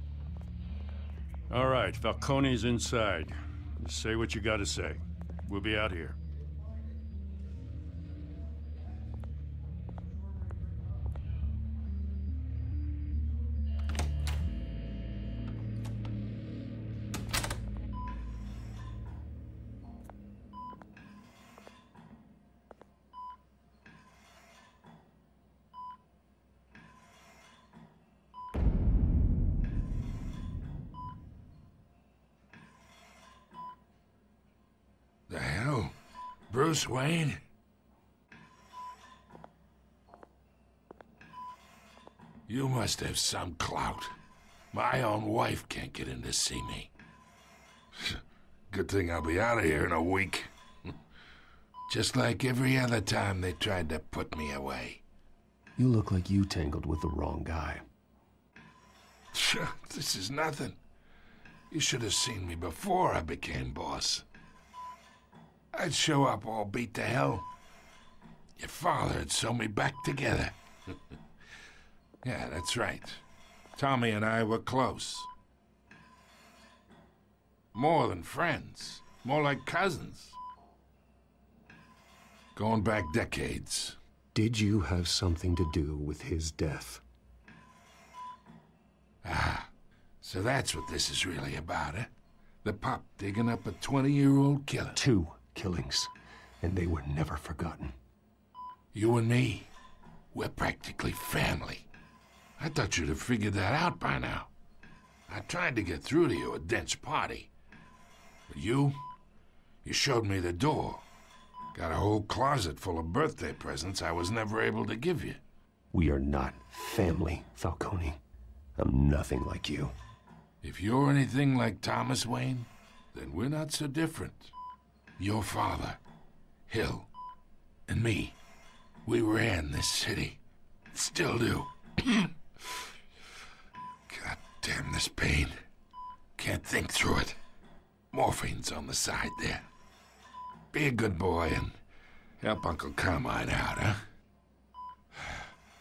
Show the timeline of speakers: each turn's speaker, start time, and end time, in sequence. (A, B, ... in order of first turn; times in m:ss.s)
0:01.5-0:06.2 A
0:35.3-0:35.9 B
0:36.5-0:37.4 B
0:42.5-0:44.1 B
0:44.7-0:46.9 B
0:48.0-0:50.5 B
0:51.9-0:55.0 B
0:55.8-0:57.8 C
0:59.3-1:00.8 B
1:01.7-1:04.2 B
1:05.7-1:07.5 B
1:08.6-1:11.0 B
1:12.2-1:13.2 B
1:13.7-1:15.3 B
1:17.7-1:20.4 B
1:22.6-1:24.0 B
1:24.3-1:27.0 C
1:29.2-1:29.7 B
1:30.2-1:32.1 B
1:32.6-1:35.0 B
1:34.9-1:37.9 C
1:38.9-1:39.7 B
1:40.3-1:41.9 B
1:42.6-1:44.5 B
1:45.3-1:47.5 B
1:48.5-1:49.0 B
1:49.8-1:51.0 B
1:51.7-1:55.4 B
1:55.9-1:58.2 C
1:58.8-1:59.9 C
2:00.6-2:04.5 B
2:05.2-2:06.0 B
2:06.7-2:07.1 B
2:07.9-2:08.4 B
2:09.0-2:10.4 B
2:10.9-2:12.9 B
2:14.1-2:15.6 B
2:16.4-2:17.4 B
2:18.1-2:19.7 B
2:20.7-2:21.7 B
2:22.4-2:24.0 B